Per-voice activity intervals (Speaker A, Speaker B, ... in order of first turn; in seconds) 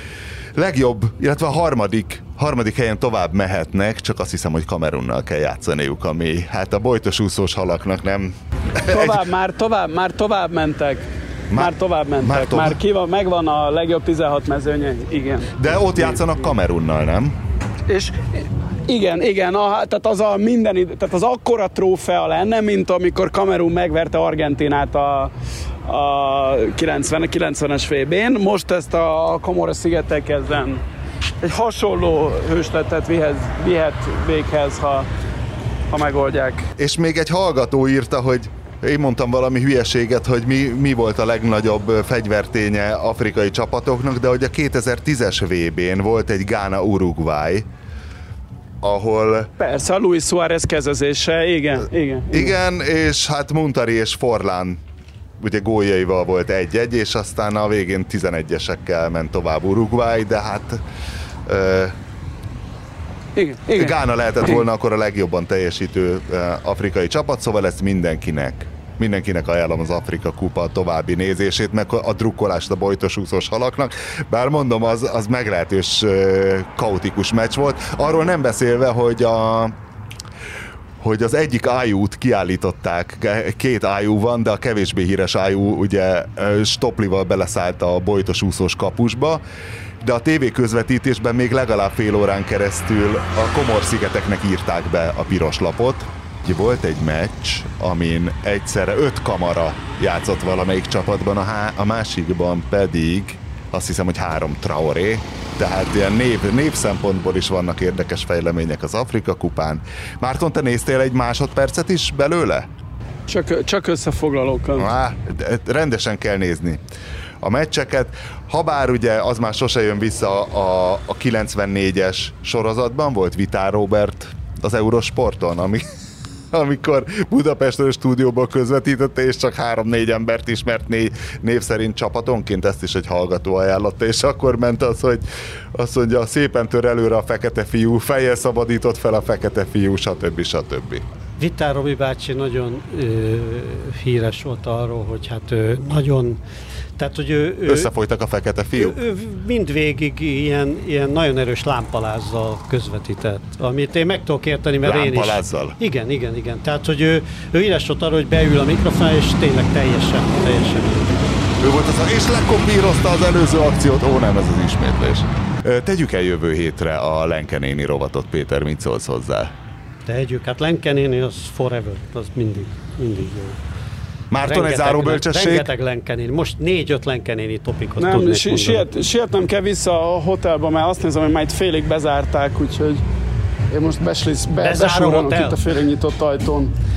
Speaker A: 0.5-9.2, 11.5-12.8, 15.6-17.4, 36.8-47.7, 48.8-49.5, 52.3-54.8, 55.4-60.8, 61.5-62.0, 63.7-79.8, 81.0-89.4, 90.0-112.7, 114.8-116.8, 117.4-125.9, 126.5-141.0, 147.7-149.0, 154.8-155.8, 161.6-169.5, 174.3-175.7
Speaker B: 8.9-16.1, 17.9-25.3, 25.9-30.8, 31.4-35.1, 35.9-36.7, 49.6-52.5, 63.4-64.0, 113.3-114.9, 178.0-183.0, 183.7-186.7
Speaker C: 141.4-146.4, 147.0-147.9, 148.8-161.1, 170.1-173.6, 174.4-178.9, 184.6-185.6